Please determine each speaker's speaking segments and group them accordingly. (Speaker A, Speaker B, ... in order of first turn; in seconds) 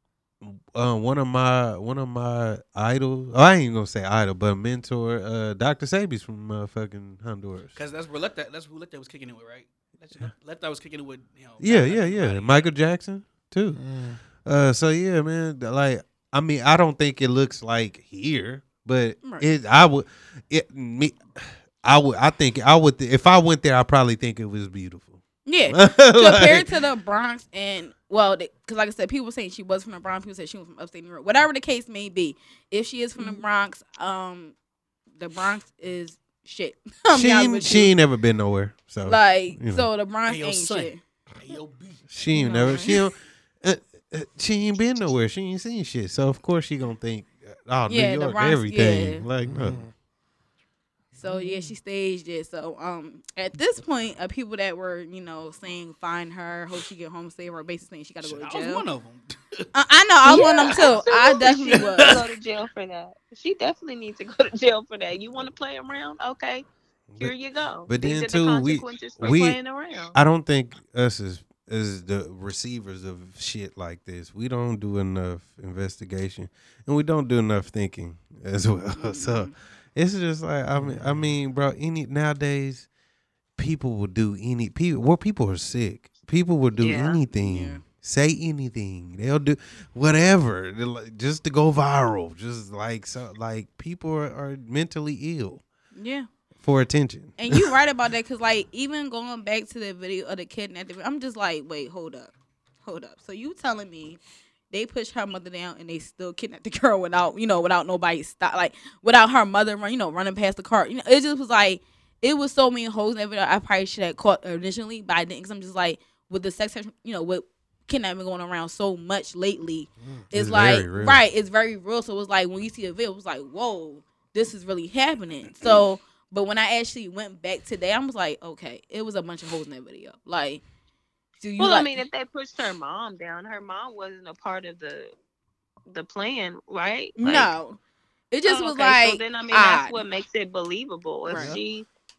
Speaker A: 0.4-7.8, 11.6-13.8, 14.3-26.8, 37.1-39.9, 42.1-49.8, 67.9-69.6, 70.1-82.9, 83.6-95.6, 96.6-97.7, 120.3-121.2
Speaker B: 7.8-12.7, 40.3-42.0, 58.2-59.6, 61.8-62.2
Speaker C: 13.7-14.2, 49.4-49.9, 51.2-51.7, 80.7-81.3, 141.3-141.6
Speaker D: 25.4-34.5, 35.1-37.9, 39.0-41.0, 42.3-43.0, 47.9-49.2, 51.2-58.8, 59.7-62.2, 79.0-79.5, 87.3-87.8, 95.9-96.3, 97.4-102.3, 102.8-104.2, 104.7-130.6, 131.4-131.9, 137.2-137.8, 138.3-140.0, 141.2-141.6
Speaker E: 60.2-66.7, 67.2-70.2, 86.8-87.2, 131.6-135.1, 135.9-137.5, 138.4-141.9